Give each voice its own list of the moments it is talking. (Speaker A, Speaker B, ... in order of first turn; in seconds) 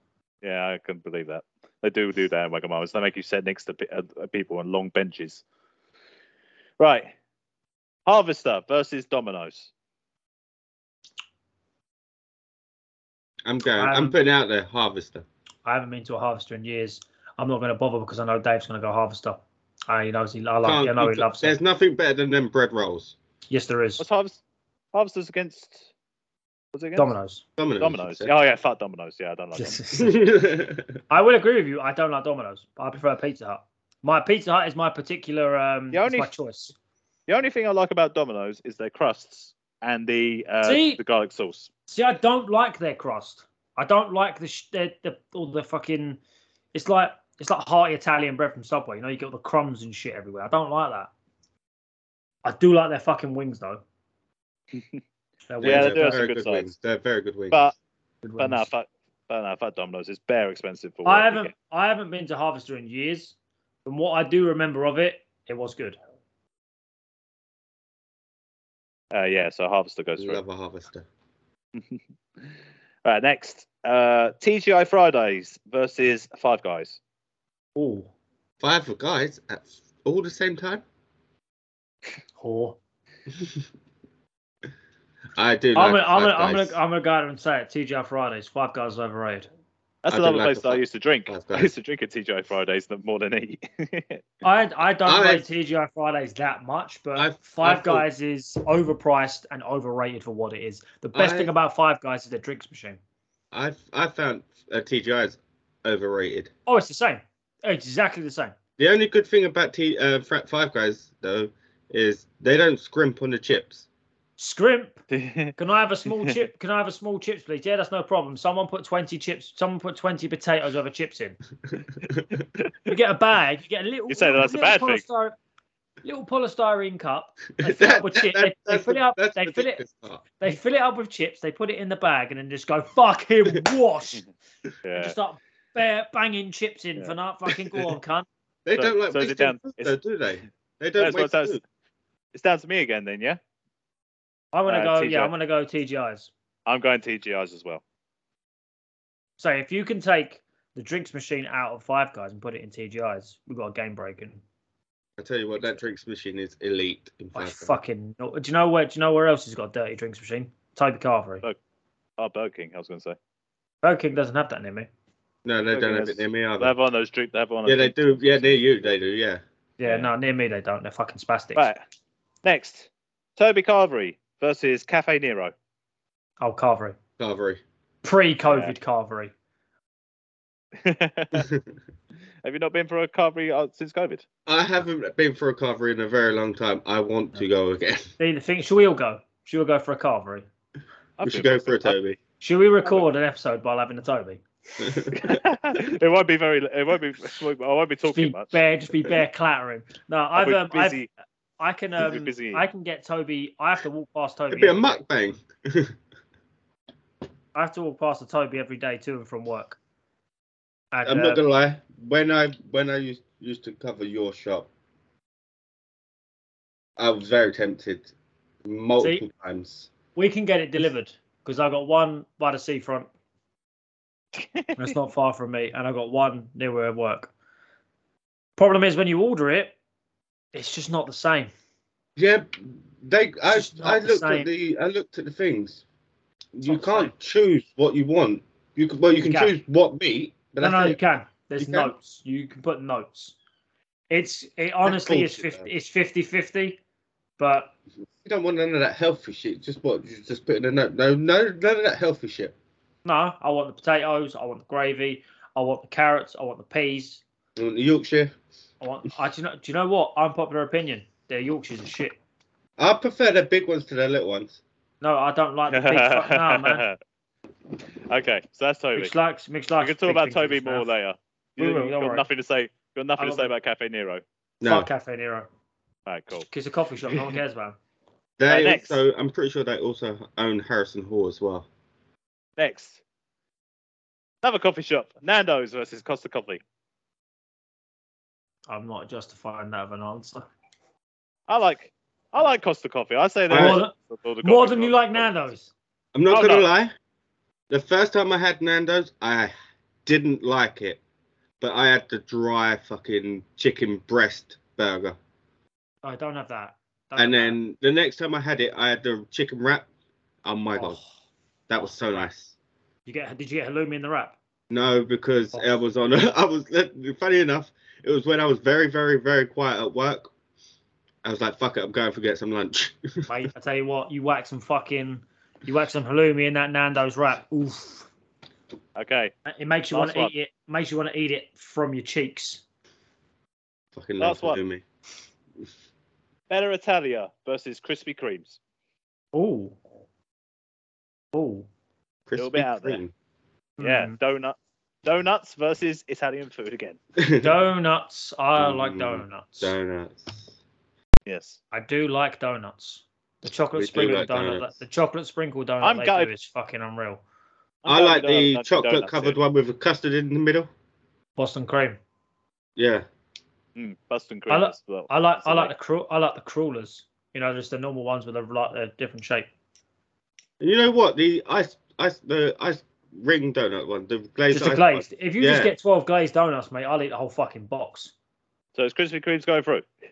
Speaker A: 0.4-5.4, 6.8-7.1, 8.1-9.7, 24.0-24.4, 24.9-25.9, 26.7-27.1, 27.8-29.8, 35.9-36.3, 37.3-41.7, 54.7-55.0, 55.6-56.7, 57.5-57.8, 58.4-61.5, 69.1-70.4, 71.8-72.4, 73.0-77.0, 90.0-94.2, 115.1-115.5, 124.1-125.0, 134.8-135.2, 138.8-140.0, 141.0-141.6, 142.3-143.4, 144.7-145.3, 146.7-147.8, 162.2-163.2, 165.7-168.9, 169.8-170.1, 171.6-171.8, 172.4-175.5, 178.5-178.7, 180.8-181.5, 182.4-184.2, 191.2-192.0, 195.1-198.6, 200.4-201.1, 202.0-202.7, 224.4-224.9, 265.7-267.0, 268.1-269.1, 269.8-274.2, 276.1-276.5, 278.5-279.0, 282.6-283.0, 284.4-286.6, 291.5-295.5, 296.3-296.7, 329.0-329.3, 329.9-330.3, 334.2-334.6, 336.5-338.6, 342.4-343.0, 343.8-347.0, 351.3-351.6, 355.8-356.3, 357.8-359.4, 363.8-365.7, 378.8-379.9
Speaker B: 13.5-15.2, 20.6-23.1, 27.6-28.3, 30.0-31.0, 55.6-57.6, 70.2-71.1, 78.6-80.8, 85.4-86.8, 90.1-91.7, 95.1-95.5, 97.2-98.0, 101.1-101.5, 103.5-106.5, 108.8-113.8, 127.6-130.2, 138.7-141.6, 155.2-157.8, 165.4-166.7, 167.7-169.4, 177.2-177.6, 184.5-188.1, 191.2-192.2, 194.8-195.4, 204.5-205.9, 211.1-214.7, 217.0-218.1, 218.7-219.9, 232.2-235.8, 236.6-241.0, 241.6-241.9, 244.8-245.7, 248.2-252.5, 257.6-258.3, 262.8-264.6, 274.6-274.9, 278.4-281.7, 293.5-293.8, 296.1-296.9, 297.7-299.5, 300.1-301.0, 301.6-305.2, 307.2-309.9, 310.4-311.0, 311.7-312.5, 314.7-320.3, 321.2-323.3, 333.9-334.8, 342.3-343.1, 347.2-347.5, 348.6-350.5, 353.8-354.8, 357.9-360.7, 362.8-363.1, 370.6-375.7
Speaker C: 13.8-14.2, 15.7-21.6, 23.5-24.0, 27.0-27.4, 29.6-30.2, 31.1-36.8, 40.6-41.0, 41.9-46.2, 46.7-51.1, 52.4-53.8, 55.5-56.2, 58.2-58.7, 61.0-66.0, 77.8-78.1, 82.4-82.8, 85.8-89.5, 94.4-103.0, 106.7-108.5, 114.4-115.0, 115.6-121.4, 122.9-125.4, 126.0-129.8, 130.4-134.2, 135.0-138.3, 144.5-146.3, 149.4-154.4, 157.3-161.4, 163.8-164.9, 169.8-171.7, 176.4-177.0, 178.0-179.3, 188.2-190.5, 192.4-194.4, 198.1-201.0, 201.6-205.0, 207.6-209.8, 210.9-211.4, 220.2-223.1, 224.8-227.3, 228.6-229.8, 230.5-231.5, 233.5-234.5, 236.7-237.1, 239.2-239.6, 240.6-243.4, 244.1-246.8, 247.4-247.7, 253.1-257.2, 258.8-262.2, 265.0-266.9, 269.0-270.9, 271.6-272.2, 273.2-273.5, 274.6-275.5, 276.5-277.8, 288.7-290.5, 293.5-295.7, 306.0-307.6, 310.8-311.1, 313.1-314.4, 323.3-328.1, 329.5-332.6, 339.3-339.8, 341.3-341.7, 343.8-344.2, 347.4-349.8, 351.7-357.2, 361.4-362.0, 364.5-369.5, 374.5-378.1